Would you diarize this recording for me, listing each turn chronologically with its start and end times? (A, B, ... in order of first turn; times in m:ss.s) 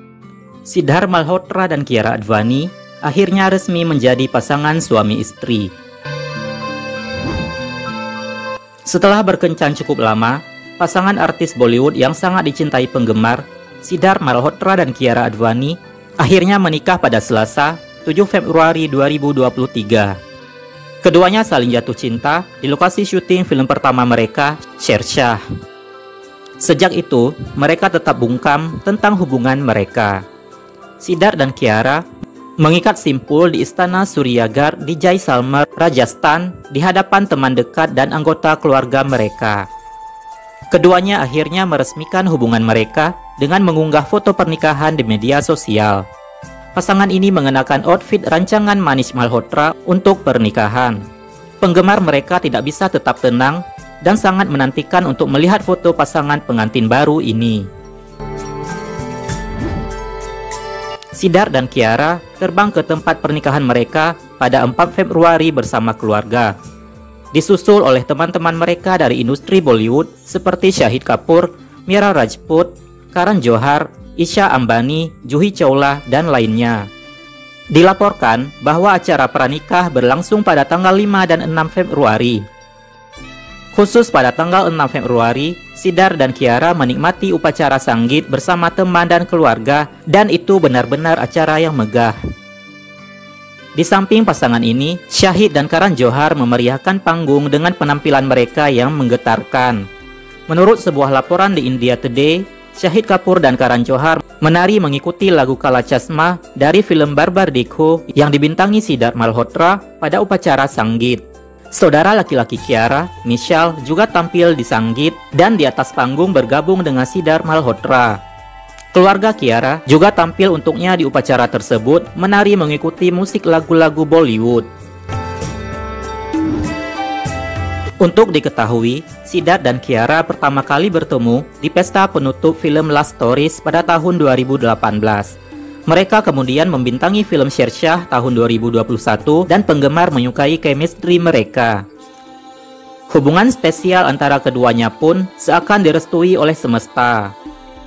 0:00.7-0:05.7 A
0:08.8-0:20.2 A
0:21.0-0:25.4 A
0:26.6-0:30.2 A
0:31.0-0:32.0 A
0:32.6-0:39.7 A
0:40.7-0:46.1 A
0:46.8-0:51.0 A
0:51.6-0:57.7 A
1:01.1-1:06.6 A
1:07.3-1:16.9 A
1:17.7-1:22.5 A
1:23.7-1:32.2 A
1:33.8-1:39.9 A
1:40.5-1:58.2 A
1:58.9-2:04.7 A
2:08.0-2:21.8 A
2:23.1-2:27.3 A